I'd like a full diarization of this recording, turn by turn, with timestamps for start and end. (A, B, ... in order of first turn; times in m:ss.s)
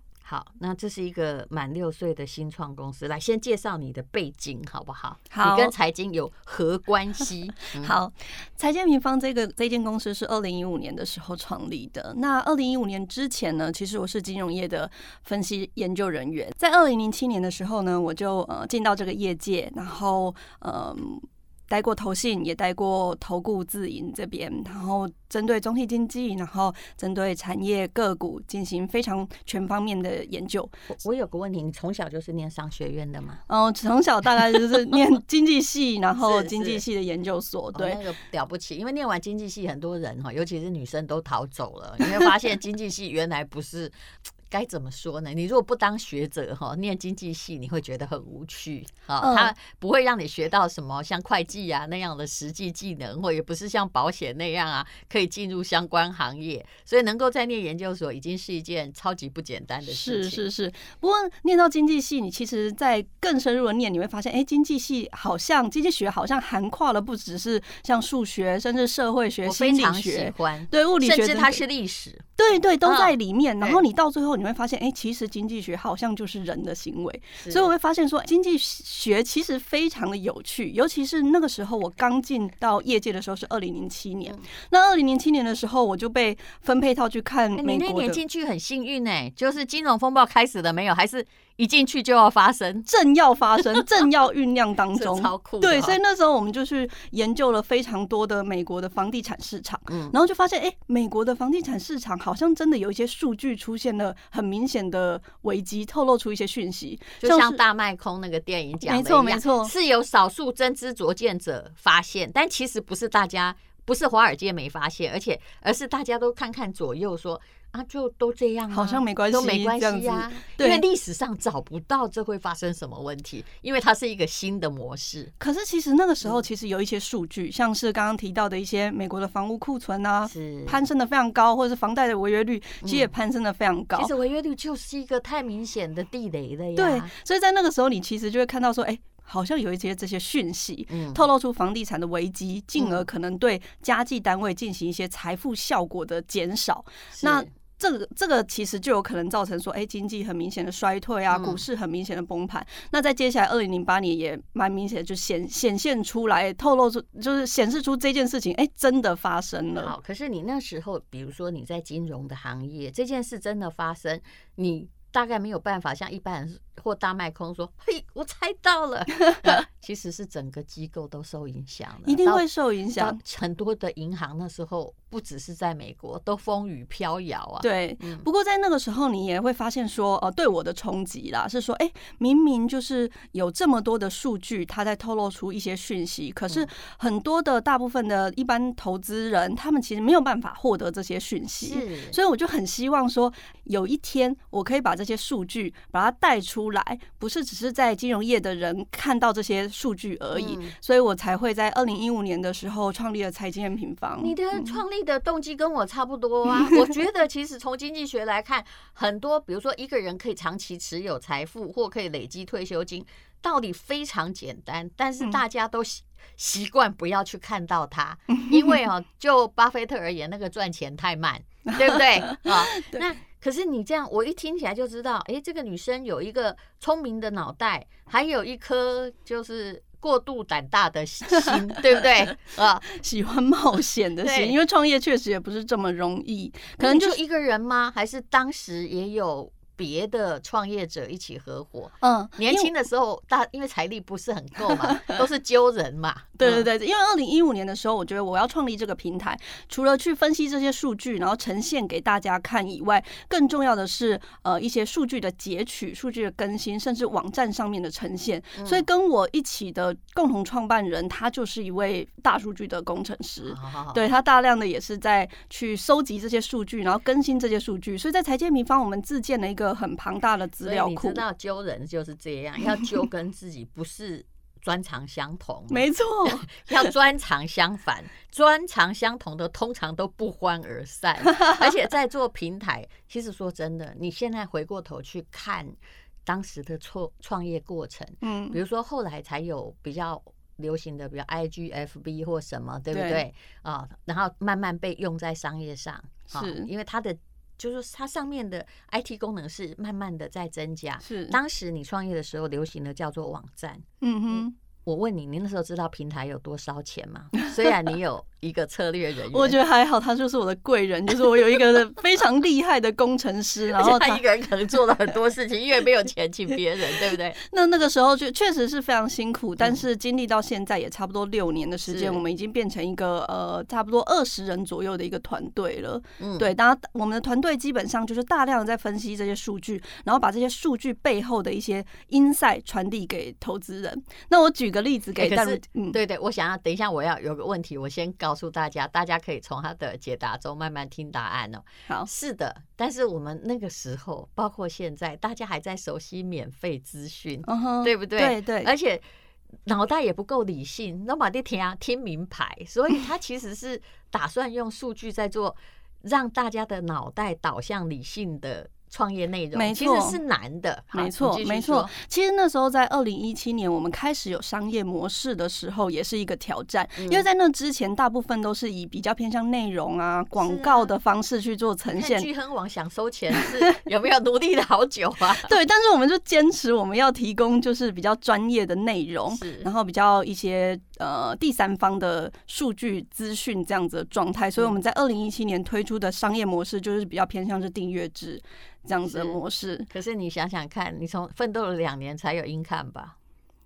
0:00.2-0:08.0 A
0:05.3-0:05.7 B
0:07.8-0:30.8 B
0:30.9-0:33.4 A
0:33.5-0:38.0 B
0:36.2-0:36.8 A
0:37.7-1:00.4 A
0:49.2-0:49.5 B
0:59.9-1:11.6 B
1:09.4-1:13.8 A
1:12.4-1:28.2 B
1:17.4-1:17.7 A
1:27.6-1:32.9 A
1:32.9-1:47.6 B
1:34.9-1:36.0 A
1:39.9-1:40.2 A
1:47.2-2:05.3 A
1:48.8-1:49.7 B
1:58.7-2:00.8 B
2:05.4-2:14.1 B
2:10.3-2:10.8 A
2:12.8-2:13.1 A
2:14.0-2:17.1 A
2:16.8-2:39.9 B
2:20.9-2:21.2 A
2:22.8-2:23.1 A
2:27.1-2:27.5 A
2:31.3-2:31.6 A
2:39.8-2:52.4 A
2:52.0-2:53.2 B
2:53.0-2:58.3 A
2:57.6-3:24.8 B
3:11.6-3:12.2 A
3:20.3-3:20.8 A
3:24.2-3:52.8 A
3:41.7-3:43.1 B
3:51.4-3:52.0 B
3:52.8-3:57.2 B
3:54.2-3:54.6 A
3:56.8-4:06.7 A
4:02.0-4:02.7 B
4:04.7-4:05.2 B
4:06.4-4:31.2 B
4:18.6-4:18.8 A
4:23.5-4:24.1 A
4:30.6-5:03.8 A
4:35.7-4:36.9 B
4:48.2-4:48.6 B
4:52.9-4:53.2 B
4:56.3-4:56.7 B
5:01.0-5:01.4 B
5:04.0-5:04.5 B
5:04.8-5:09.6 A
5:09.3-5:14.2 B
5:13.7-5:17.4 A
5:17.4-5:36.0 B
5:21.9-5:22.2 A
5:26.2-5:26.5 A
5:35.2-5:49.0 A
5:47.4-5:48.7 B
5:49.7-6:01.9 A
5:59.5-6:00.2 B
6:00.9-6:12.3 B
6:07.0-6:07.2 A
6:10.4-6:10.9 A
6:11.9-6:15.5 A
6:15.3-6:29.9 B
6:19.3-6:19.7 A
6:29.0-6:29.4 A
6:29.9-6:33.2 A